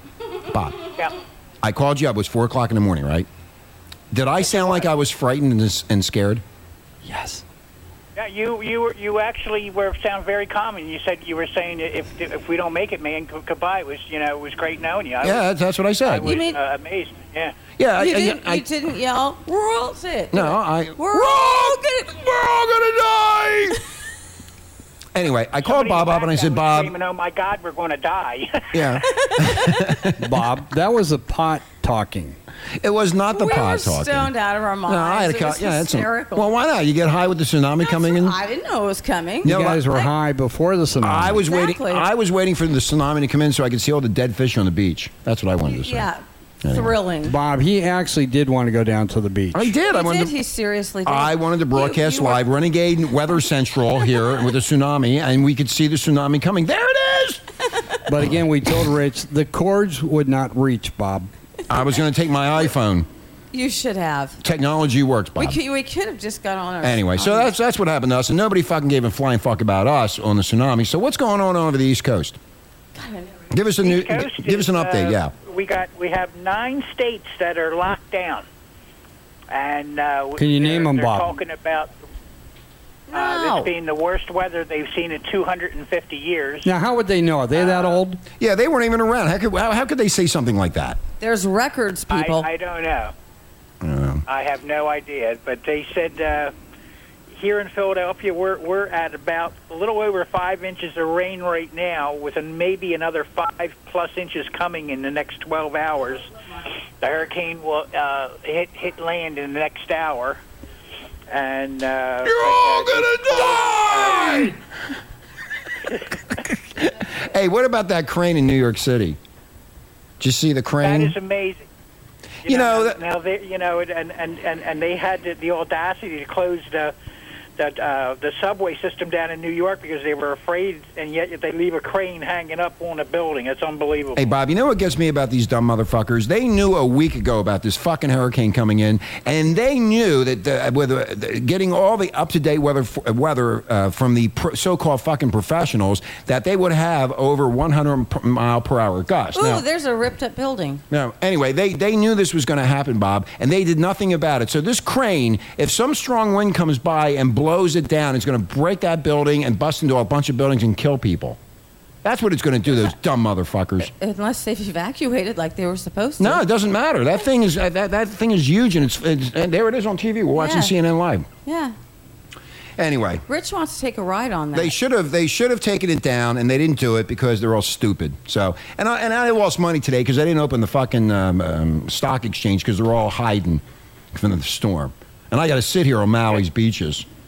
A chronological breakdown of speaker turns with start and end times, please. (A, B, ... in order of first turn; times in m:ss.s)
0:00.5-0:00.9 A
0:01.6-0:03.3 A
0:04.1-0:06.4 A
0:04.4-0:04.9 B
0:07.0-0:07.4 C
0:08.2-0:15.4 B
0:15.2-0:16.4 A
0:16.0-0:17.6 B
0:16.2-0:16.6 D
0:17.8-0:18.6 A
0:18.0-0:22.1 D
0:20.3-0:23.8 A
0:25.2-0:26.9 A
0:25.6-0:29.0 B
0:28.7-0:30.3 A
0:30.2-0:32.4 C
0:32.8-0:34.3 A
0:33.3-0:36.5 D
0:34.9-0:38.4 A
0:37.8-0:40.1 D
0:39.4-0:39.9 A
0:39.4-0:41.4 C
0:41.0-0:46.1 A
0:41.5-0:42.1 D
0:45.6-0:47.4 D
0:46.6-0:47.0 A
0:47.2-0:49.7 C
0:49.5-0:50.4 A
0:49.9-0:52.4 D
0:51.0-0:57.4 A
0:58.1-1:01.3 C
1:01.7-1:03.1 A
1:03.5-1:04.4 D
1:04.4-1:05.6 A
1:05.4-1:07.5 D
1:06.8-1:12.4 A
1:13.0-1:13.3 D
1:13.5-1:15.3 A
1:13.8-1:18.5 B
1:19.5-1:21.9 B
1:20.4-1:21.3 C
1:23.1-1:23.7 D
1:23.1-1:26.7 B
1:26.6-1:28.2 C
1:27.5-1:28.0 B
1:28.4-1:31.0 A
1:31.2-1:32.5 D
1:32.1-1:33.1 B
1:33.8-1:34.2 A
1:34.3-1:36.5 B
1:37.3-1:46.3 B
1:47.0-1:50.4 B
1:51.3-1:54.6 B
1:52.2-1:54.6 A
1:56.8-1:59.2 A
2:00.2-2:01.2 A
2:00.8-2:01.6 B
2:02.4-2:06.9 B
2:02.5-2:03.0 A
2:07.6-2:14.3 B
2:14.2-2:29.6 A
2:29.4-2:30.8 D
2:30.9-2:41.4 A
2:42.0-2:43.9 A
2:43.8-2:46.4 D
2:46.2-2:51.3 A
2:50.3-2:50.8 D
2:51.4-2:51.8 D
2:52.8-2:53.2 A
2:53.3-2:54.8 D
2:54.5-3:07.0 A